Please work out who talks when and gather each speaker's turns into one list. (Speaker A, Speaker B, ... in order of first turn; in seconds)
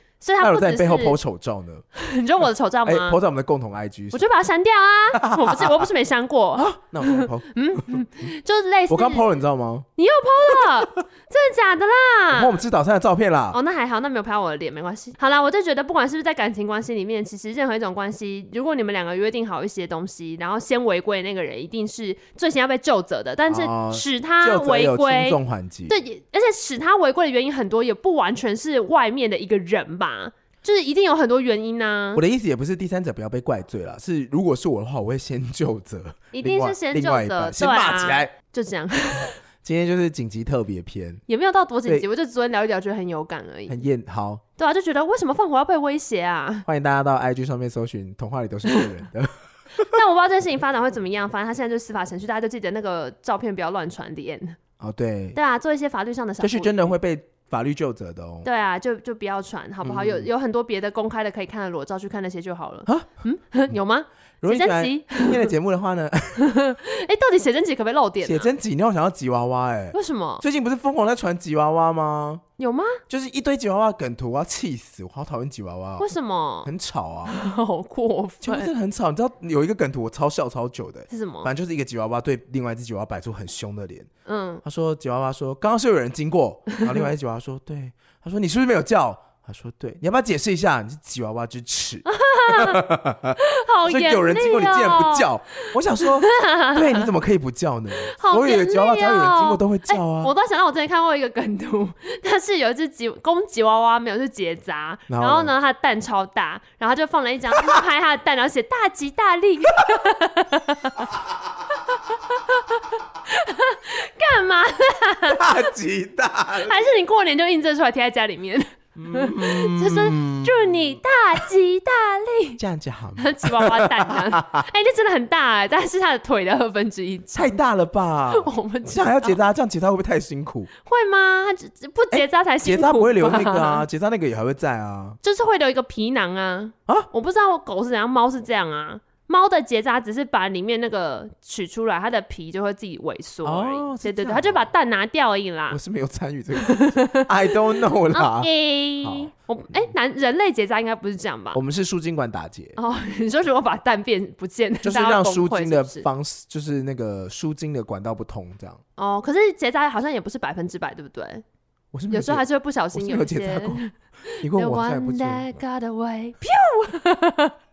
Speaker A: 0.2-1.2, 2.0-3.2, 4.1-9.3, 10.0-12.6, 13.5-32.2, 36.3-39.4, 41.3-43.8, 44.6-46.7, 49.9-54.6, 55.4-56.9, 58.4-65.5, 66.4-68.5, 69.9-70.4, 72.6-73.0, 76.0-76.7, 77.3-78.7, 81.1-81.5, 84.3-84.6, 92.1-92.8, 93.4-97.1, 98.0-111.1, 111.9-115.7, 116.6-122.6, 123.2-127.6, 128.3-129.4, 130.9-133.9, 135.2-145.8, 146.6-147.6, 148.1-151.6, 152.8-156.1, 159.0-161.4, 162.1-167.5
Speaker B: 0.4-1.9, 2.9-4.2, 5.2-5.9, 6.5-8.1, 8.9-9.9, 12.3-13.6, 23.5-26.0, 32.1-38.3, 39.6-41.2, 43.7-44.4, 46.7-49.9, 54.8-55.4, 56.4-58.5, 59.8-60.3, 64.4-66.5, 68.2-72.4, 73.1-76.1, 76.6-77.4, 78.4-84.1, 84.6-100.3, 105.1-105.5, 115.3-116.8, 119.0-121.0, 122.6-124.7, 127.3-130.7, 132.1-135.2, 143.4-144.7, 145.7-148.5, 149.0-149.9, 151.5-152.8, 154.8-158.8, 161.9-163.8, 164.4-165.5